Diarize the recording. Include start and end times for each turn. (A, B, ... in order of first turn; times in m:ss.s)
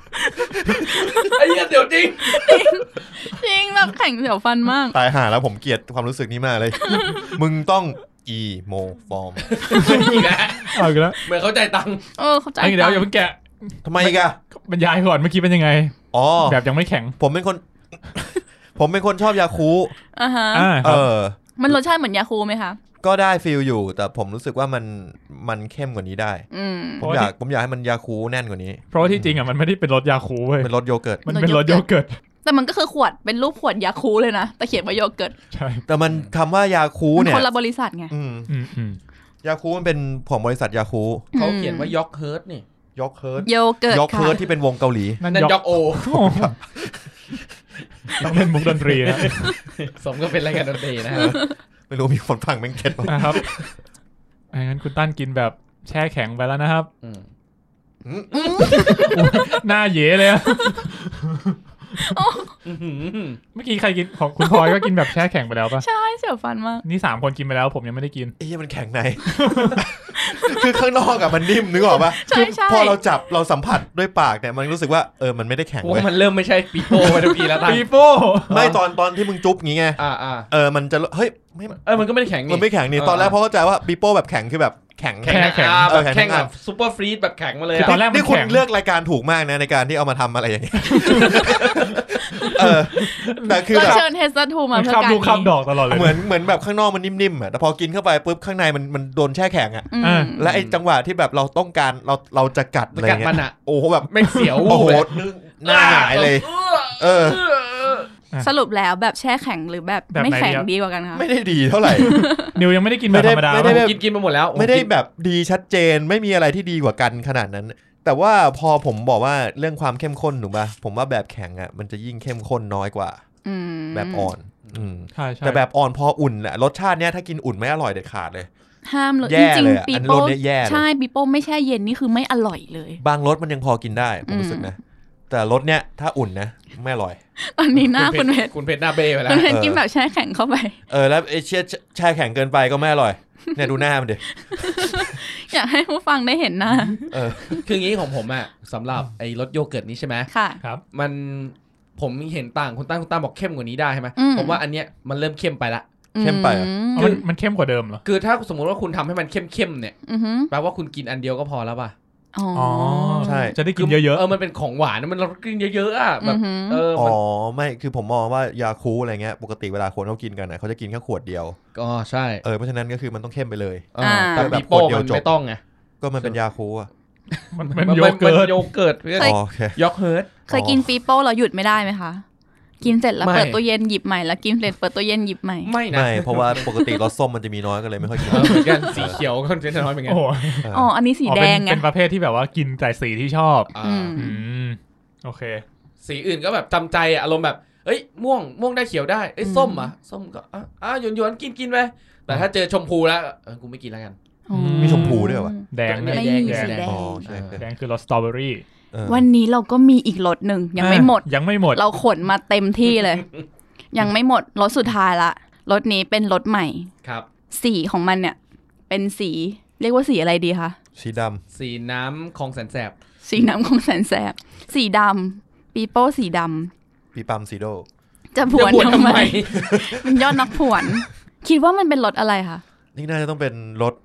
0:00.2-0:01.4 A
0:01.0-0:02.8 B
0:02.2-0:05.0 A
0:04.9-0:09.6 C
0:06.8-0:07.4 A
0:09.4-0:12.0 B
0:09.7-0:11.2 D
0:12.2-0:13.1 A
0:12.6-0:17.2 D
0:13.8-0:14.4 C
0:16.1-0:16.6 C
0:17.2-0:19.9 C
0:20.1-0:20.8 A
0:20.5-0:21.1 D
0:20.8-0:21.4 C
0:21.6-0:22.8 A
0:23.0-0:26.4 C
0:26.5-0:27.1 A
0:27.0-0:29.3 C
0:27.0-0:27.3 D
0:28.9-0:30.7 D
0:30.6-0:31.2 C
0:31.2-0:32.2 D
0:31.3-0:31.8 A
0:32.4-0:35.4 A
0:35.5-0:35.8 D
0:35.9-0:37.5 C
0:36.1-0:36.3 B
0:37.2-0:38.1 A
0:38.1-0:38.5 C
0:38.5-0:39.0 D
0:39.4-0:41.3 C
0:41.3-0:42.0 A
0:41.4-0:42.6 B
0:43.0-0:45.2 C
0:43.4-0:44.4 A
0:45.2-0:46.6 D
0:45.3-0:46.2 B
0:46.1-0:47.0 C
0:48.1-0:49.6 D
0:49.0-0:51.4 B
0:51.1-0:53.7 C
0:51.2-0:51.5 A
0:53.1-0:53.4 D
0:54.5-0:56.9 D
0:58.0-0:59.2 C
0:58.3-0:59.4 A
0:58.8-1:02.2 D
1:02.0-1:02.6 A
1:02.6-1:03.4 B
1:03.6-1:05.8 D
1:04.4-1:04.9 A
1:05.8-1:06.8 A
1:06.8-1:08.4 D
1:08.4-1:16.1 C
1:09.3-1:09.8 D
1:10.2-1:10.6 A
1:11.7-1:13.0 A
1:15.8-1:17.9 B
1:16.9-1:18.8 D
1:18.5-1:26.5 C
1:20.0-1:20.5 B
1:21.8-1:23.4 B
1:25.2-1:28.0 B
1:25.2-1:26.0 D
1:27.8-1:28.6 D
1:27.8-1:34.0 C
1:30.9-1:31.5 D
1:31.1-1:31.9 B
1:32.4-1:34.1 D
1:33.0-1:35.5 A
1:34.7-1:36.2 D
1:35.9-1:47.4 C
1:39.9-1:40.5 A
1:40.0-1:40.3 D
1:40.4-1:40.8 B
1:42.9-1:43.6 B
1:44.1-1:48.1 B
1:44.3-1:45.0 D
1:48.4-1:51.3 A
1:50.1-1:50.7 D
1:51.1-1:52.3 C
1:51.9-1:52.6 A
1:52.1-1:53.9 D
1:53.1-1:54.0 C
1:53.6-1:54.9 B
1:54.5-2:03.2 C
2:03.4-2:04.3 A
2:03.9-2:08.5 C
2:05.2-2:05.6 D
2:08.8-2:13.0 A
2:09.2-2:10.8 C
2:13.0-2:14.8 C
2:14.3-2:14.7 A
2:15.3-2:17.2 C
2:17.4-2:18.5 A
2:17.8-2:19.5 B
2:19.2-2:20.8 A
2:19.4-2:19.8 C
2:20.9-2:25.0 C
2:24.3-2:27.6 A
2:27.1-2:27.7 C
2:27.6-2:30.3 B
2:30.3-2:30.6 A
2:30.9-2:35.9 B
2:34.2-2:34.6 A
2:36.1-2:37.2 A
2:36.2-2:36.7 C
2:37.0-2:38.0 D
2:37.0-2:37.2 B
2:38.0-2:40.0 B
2:40.1-2:40.5 A
2:40.5-2:42.0 B
2:42.3-2:43.6 A
2:42.6-2:44.3 D
2:43.2-2:43.6 C
2:43.7-2:47.2 B
2:46.2-2:46.8 A
2:46.9-2:51.6 C
2:51.8-2:52.4 B
2:52.4-2:55.3 C
2:53.9-2:55.6 B
2:54.0-2:54.6 A
2:56.0-2:56.9 C
2:57.3-3:00.3 B
2:57.5-2:58.7 D
2:59.2-2:59.8 C
3:00.5-3:02.2 A
3:00.5-3:00.9 C
3:02.8-3:05.7 A
3:03.2-3:03.6 B
3:05.6-3:06.7 B
3:05.9-3:09.2 C
3:08.3-3:08.9 A
3:08.3-3:10.2 B
3:10.0-3:10.7 D
3:10.6-3:10.9 C
3:10.7-3:11.9 A
3:11.2-3:15.6 D
3:13.7-3:14.2 B
3:13.8-3:14.4 A
3:16.0-3:24.2 B
3:19.4-3:19.9 A
3:24.5-3:27.3 A
3:24.5-3:26.8 D
3:24.8-3:25.5 C
3:25.9-3:27.6 B
3:26.8-3:27.6 C
3:27.5-3:28.6 D
3:28.9-3:29.2 C
3:29.1-3:33.3 A
3:30.8-3:31.8 D
3:33.9-3:36.9 A
3:37.5-3:38.4 A
3:38.9-3:40.8 A
3:41.0-3:41.4 C
3:41.5-3:43.0 B
3:43.2-3:46.7 A
3:47.1-3:47.9 C
3:48.4-3:52.6 A
3:48.5-3:49.7 B
3:49.5-3:50.5 C
3:53.0-3:54.0 C